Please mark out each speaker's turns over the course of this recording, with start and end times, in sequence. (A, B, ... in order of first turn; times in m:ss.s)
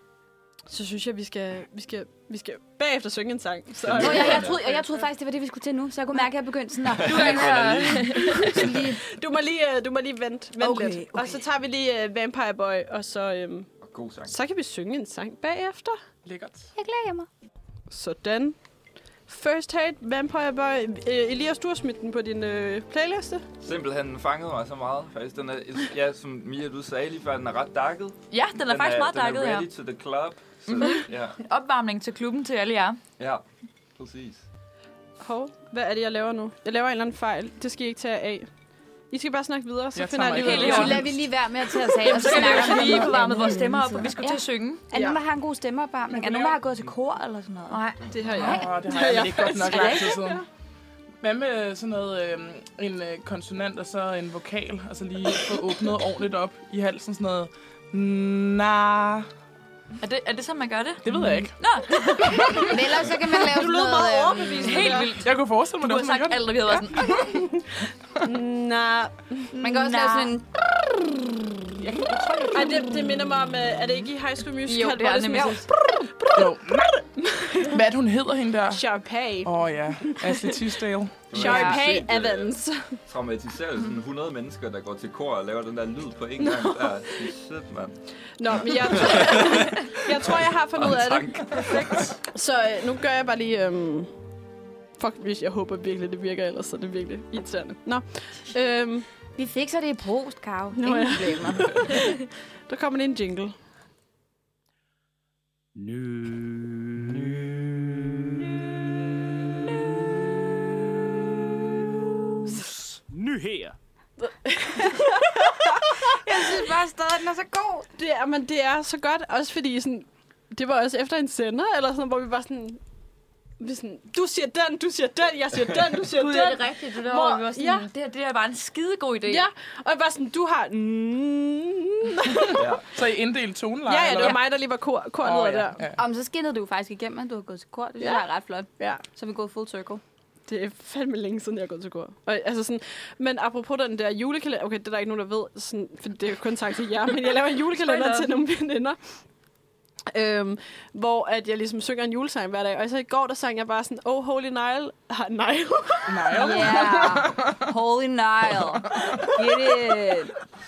0:00.7-0:05.0 A
0:03.8-0:04.6 B
0:04.0-0:07.7 C
0:06.8-0:08.6 D
0:06.8-0:08.8 B
0:08.4-0:09.0 C
0:08.5-0:13.7 A
0:10.6-0:11.4 C
0:13.8-0:14.3 B
0:14.2-0:16.0 A
0:16.2-0:16.7 E
0:16.7-0:17.3 C
0:17.9-0:18.6 A
0:19.3-0:23.4 A
0:23.6-0:31.4 B
0:28.3-0:29.7 D
0:30.7-0:33.0 D
0:33.2-0:33.4 B
0:34.0-0:34.4 B
0:35.2-0:38.5 A
0:39.1-0:41.0 A
0:39.9-0:41.1 E
0:40.3-0:41.1 D
0:40.6-0:47.8 C
0:42.0-0:44.8 D
0:42.0-0:43.1 A
0:42.4-0:43.0 E
0:44.9-0:45.2 A
0:46.1-0:46.6 E
0:47.7-0:48.2 D
0:48.0-0:48.5 B
0:48.1-0:50.3 A
0:48.3-0:48.8 C
0:48.4-0:50.4 E
0:49.4-0:50.2 C
0:51.2-0:59.3 E
1:00.0-1:07.2 D
1:01.0-1:01.6 E
1:02.2-1:02.7 E
1:02.5-1:05.0 C
1:04.5-1:05.1 A
1:05.1-1:06.4 E
1:06.6-1:09.5 A
1:09.5-1:10.4 D
1:09.6-1:10.7 C
1:11.8-1:12.6 C
1:12.3-1:12.8 D
1:12.5-1:16.5 A
1:14.6-1:15.7 D
1:15.3-1:15.6 C
1:16.3-1:16.9 E
1:17.6-1:18.9 E
1:18.7-1:20.7 A
1:19.4-1:21.3 E
1:21.3-1:32.1 B
1:21.3-1:23.0 A
1:21.3-1:21.8 C
1:26.4-1:27.3 A
1:28.4-1:31.7 A
1:32.2-1:34.1 A
1:35.0-1:39.0 A
1:39.4-1:42.0 C
1:40.7-1:43.5 A
1:45.7-1:48.6 F
1:52.4-1:53.8 F
1:54.2-1:56.0 A
1:56.0-1:57.9 C
1:58.0-2:02.8 A
2:03.6-2:07.9 A
2:06.1-2:09.4 D
2:09.3-2:12.7 A
2:12.5-2:12.8 B
2:12.9-2:14.6 E
2:13.8-2:15.8 A
2:15.2-2:16.0 E
2:15.9-2:20.0 C
2:20.5-2:29.0 A
2:27.8-2:28.4 D
2:30.1-2:36.8 A
2:36.1-2:37.6 E
2:36.3-2:40.3 C
2:39.0-2:39.3 E